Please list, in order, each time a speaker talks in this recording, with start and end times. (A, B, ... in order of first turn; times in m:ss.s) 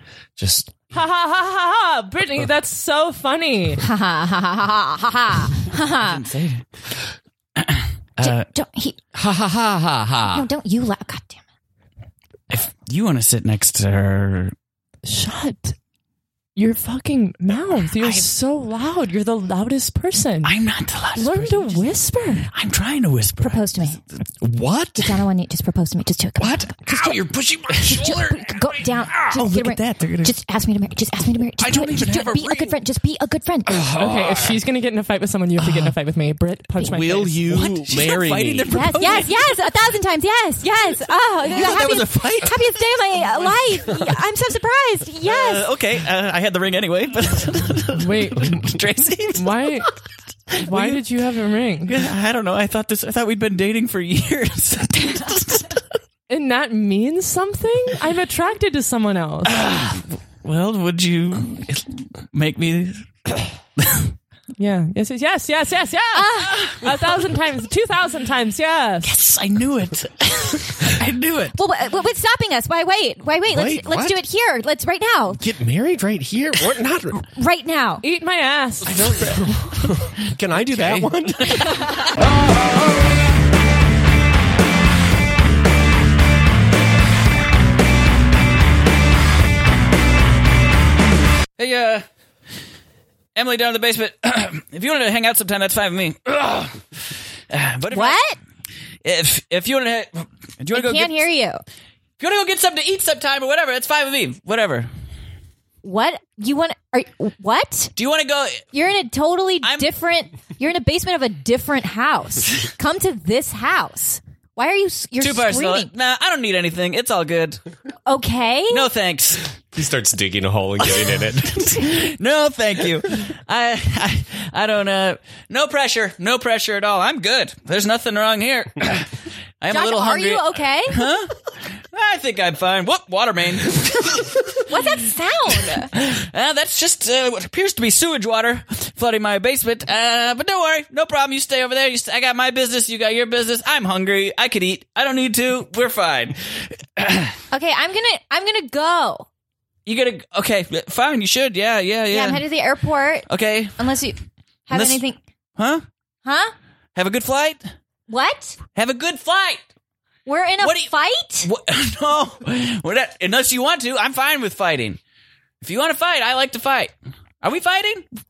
0:00.4-0:00.9 A
0:00.9-0:03.8 B
0:03.8-0:06.2 C
0:05.8-0:06.6 D
0:07.6-0:08.4 D
0:08.2-0:09.0 C
0:09.1-0:10.5 A
0:10.3-0:11.4 C
0:12.5-0:14.5 D
0:15.0-0:15.8 B
0:16.6-0:20.5 B
0:18.0-0:18.3 D
0:20.4-0:21.8 D
0:21.1-0:22.5 B
0:22.5-0:23.8 D
0:23.4-0:24.0 C
0:24.4-0:25.2 A
0:25.0-0:33.8 C
0:26.4-0:29.4 A
0:29.3-0:30.3 D
0:31.6-0:32.8 A
0:33.7-0:34.6 A
0:34.0-0:37.6 B
0:35.6-0:35.9 A
0:36.8-0:38.7 A
0:37.5-0:39.5 D
0:38.7-0:45.7 C
0:41.4-0:43.8 D
0:45.2-0:49.9 D
0:48.0-0:49.9 B
0:50.5-0:51.0 D
0:50.6-0:51.9 B
0:51.8-0:55.8 D
0:56.3-0:59.5 B
0:59.4-1:03.1 D
1:03.8-1:04.1 D
1:04.6-1:09.2 B
1:06.1-1:06.8 C
1:09.0-1:11.5 D
1:11.5-1:15.4 C
1:13.5-1:14.2 A
1:15.4-1:17.2 A
1:17.2-1:18.0 C
1:18.0-1:19.5 B
1:18.8-1:21.7 A
1:20.5-1:22.0 D
1:31.6-1:32.0 D
1:33.4-1:38.2 D
1:37.9-1:38.4 C
1:39.0-1:41.3 D
1:40.7-1:41.6 C
1:42.2-1:44.9 D
1:45.8-1:47.9 C
1:48.0-1:48.6 D
1:48.7-1:55.9 C
1:49.6-1:49.9 D
1:55.2-1:57.6 D
1:58.0-1:58.9 C
1:58.7-1:59.5 D
1:59.7-2:01.8 A
2:00.8-2:14.9 D
2:09.7-2:11.1 C
2:14.7-2:15.9 C
2:15.6-2:27.4 D
2:27.5-2:29.3 C
2:29.8-2:32.4 D
2:32.1-2:35.2 C
2:33.3-2:33.8 D
2:34.7-2:35.0 D
2:35.6-2:35.8 D
2:36.2-2:36.5 C
2:36.9-2:37.6 D
2:38.1-2:38.6 C
2:38.7-2:39.6 D
2:40.2-2:41.5 C
2:40.6-2:40.9 D
2:41.4-2:45.0 D
2:45.6-2:48.0 D